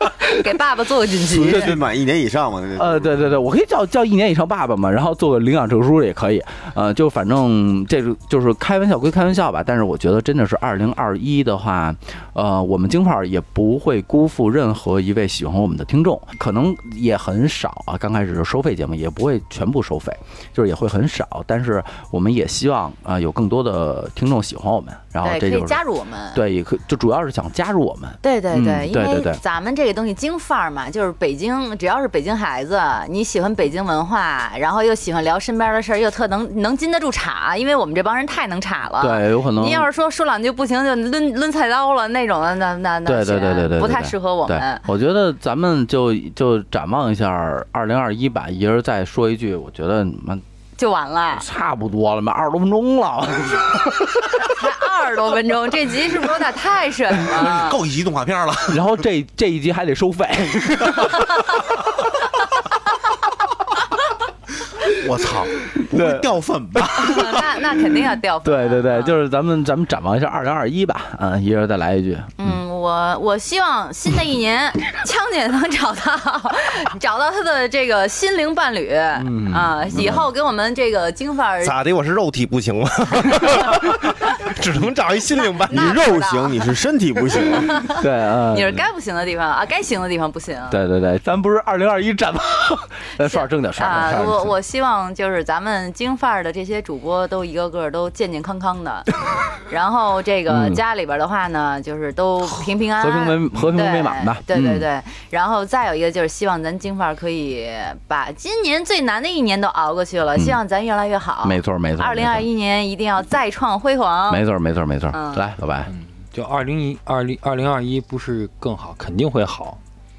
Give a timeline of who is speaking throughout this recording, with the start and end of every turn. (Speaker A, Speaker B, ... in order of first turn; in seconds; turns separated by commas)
Speaker A: 0.2-1.8, Speaker B: 1.3-3.2, Speaker C: 2.8-25.8, Speaker A: 25.2-26.4, Speaker C: 26.3-29.4, Speaker A: 28.2-44.9, Speaker C: 39.0-39.9, Speaker C: 43.1-50.4, Speaker A: 50.8-51.5, Speaker C: 51.3-54.1, Speaker A: 54.4-57.8, Speaker D: 57.2-58.8, Speaker C: 58.7-61.2, Speaker D: 64.9-67.5, Speaker C: 65.9-66.2, Speaker A: 67.0-69.2, Speaker C: 68.4-72.6, Speaker A: 72.4-81.8, Speaker C: 79.2-80.3, Speaker E: 81.6-85.9, Speaker A: 85.5-86.7, Speaker B: 85.7-87.8, Speaker A: 87.5-90.8, Speaker C: 88.0-88.8, Speaker C: 90.7-94.5, Speaker A: 93.2-99.1, Speaker A: 99.7-114.4, Speaker C: 100.5-100.8, Speaker C: 103.0-104.9, Speaker C: 111.4-112.5, Speaker C: 114.3-115.9, Speaker A: 115.1-115.4, Speaker F: 115.9-119.8